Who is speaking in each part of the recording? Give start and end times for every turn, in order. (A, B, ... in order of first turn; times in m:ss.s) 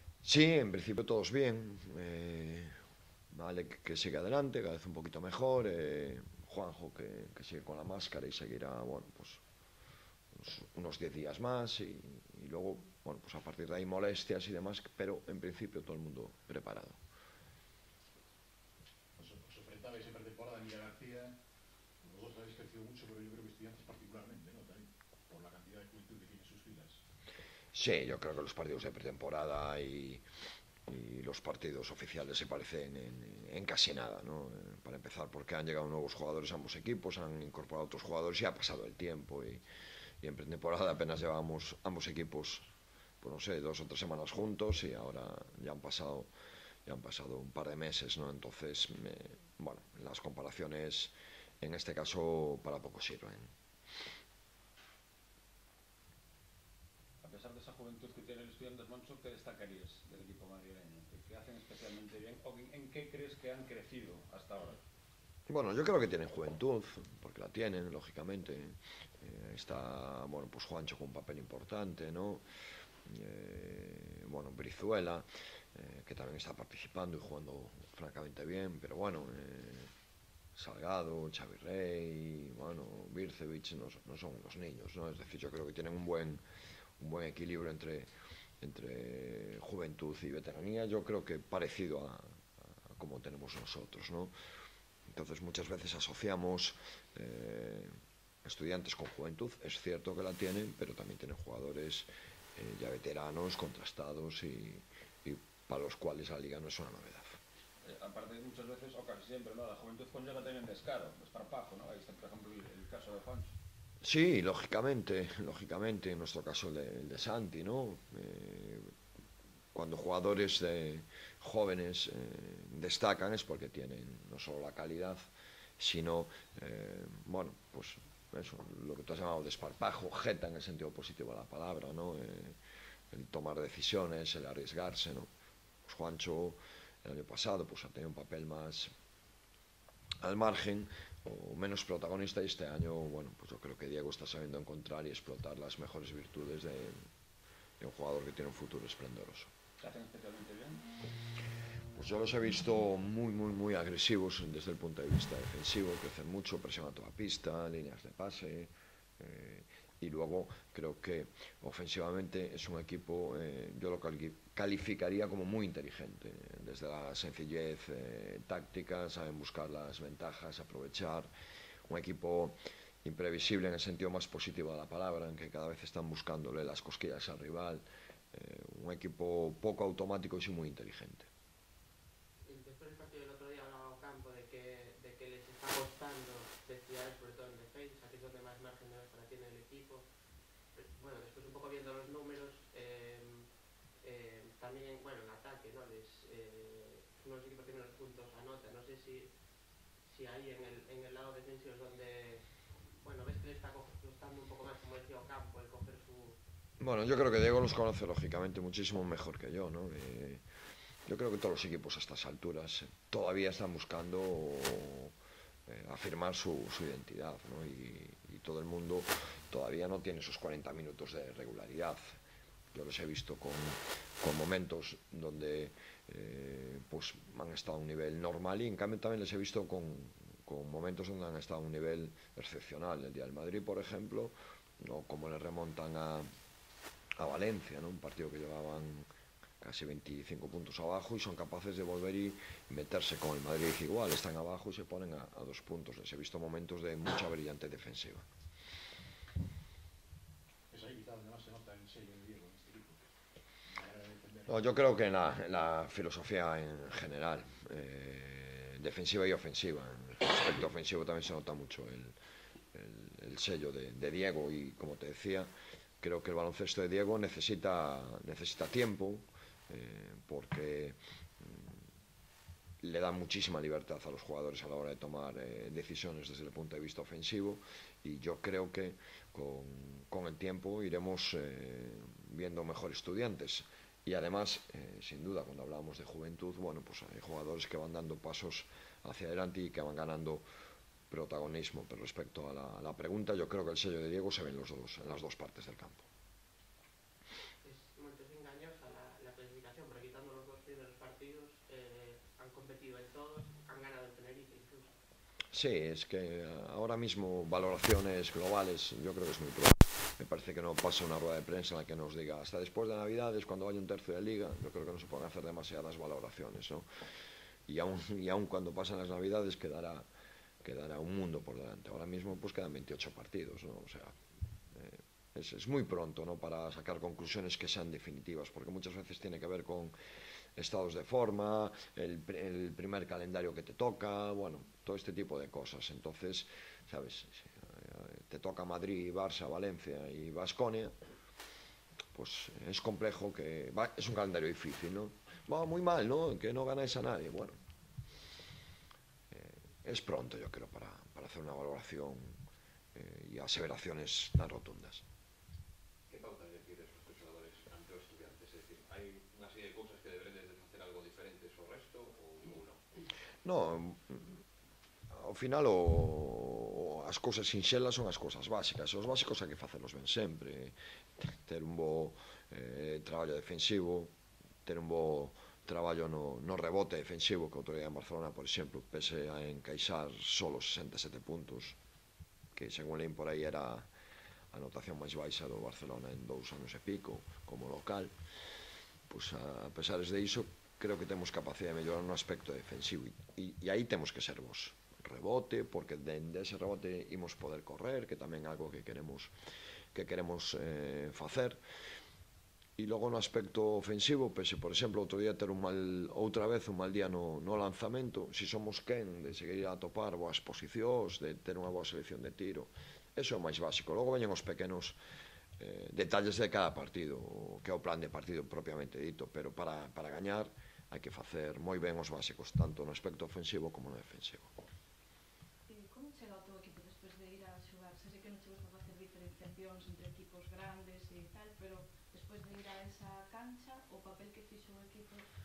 0:00.2-0:02.8 A
0:03.3-0:09.4 A
0:10.3-0:17.0 A
0:19.2-0:21.3 B
0:22.0-0:27.0 B
0:27.7-0:30.2 A
0:30.9-0:39.6 A
0:40.2-0:42.7 A
0:43.2-0:46.3 A
0:46.8-0:53.5 A
0:57.2-1:04.8 C
1:05.5-1:12.4 A
1:13.0-1:19.9 A
1:20.5-1:26.4 A
1:27.0-1:28.1 A
1:28.6-1:34.3 A
1:35.1-1:37.9 A
1:38.4-1:47.4 A
1:47.8-1:53.5 C
1:54.0-1:58.9 A
1:59.7-2:05.3 A
2:05.8-2:12.6 A
2:13.1-2:15.3 A
2:15.8-2:18.9 A
2:20.2-2:27.1 A
2:27.8-2:29.5 A
2:29.8-2:30.8 C
2:31.9-2:51.3 A
2:51.9-3:01.3 A
3:02.5-3:10.0 D
3:10.7-3:13.5 D
3:14.0-3:19.3 D
3:20.0-3:26.4 D
3:26.8-3:30.4 A
3:31.1-3:35.1 A
3:35.7-3:42.2 A
3:42.7-3:56.3 A
3:57.2-3:59.1 A
3:59.6-4:08.2 A
4:10.7-4:13.0 B
4:13.6-4:14.6 B
4:14.5-4:22.1 A
4:22.7-4:31.8 A
4:32.8-4:50.4 A
4:51.1-4:56.0 A
4:57.6-5:04.9 D
5:05.5-5:16.9 A
5:17.7-5:20.1 A
5:20.6-5:24.1 A
5:24.7-5:29.9 A
5:30.6-5:40.9 A
5:42.1-5:47.6 A
5:49.3-5:52.4 A
5:52.9-5:55.0 A
5:56.1-6:02.8 C
6:03.4-6:04.3 A
6:05.1-6:14.1 A
6:14.6-6:21.8 A
6:22.5-6:23.9 A
6:24.5-6:28.1 A
6:29.1-6:39.3 A
6:39.9-6:41.6 A
6:42.8-6:55.0 A
6:55.6-7:04.5 A
7:05.7-7:15.2 E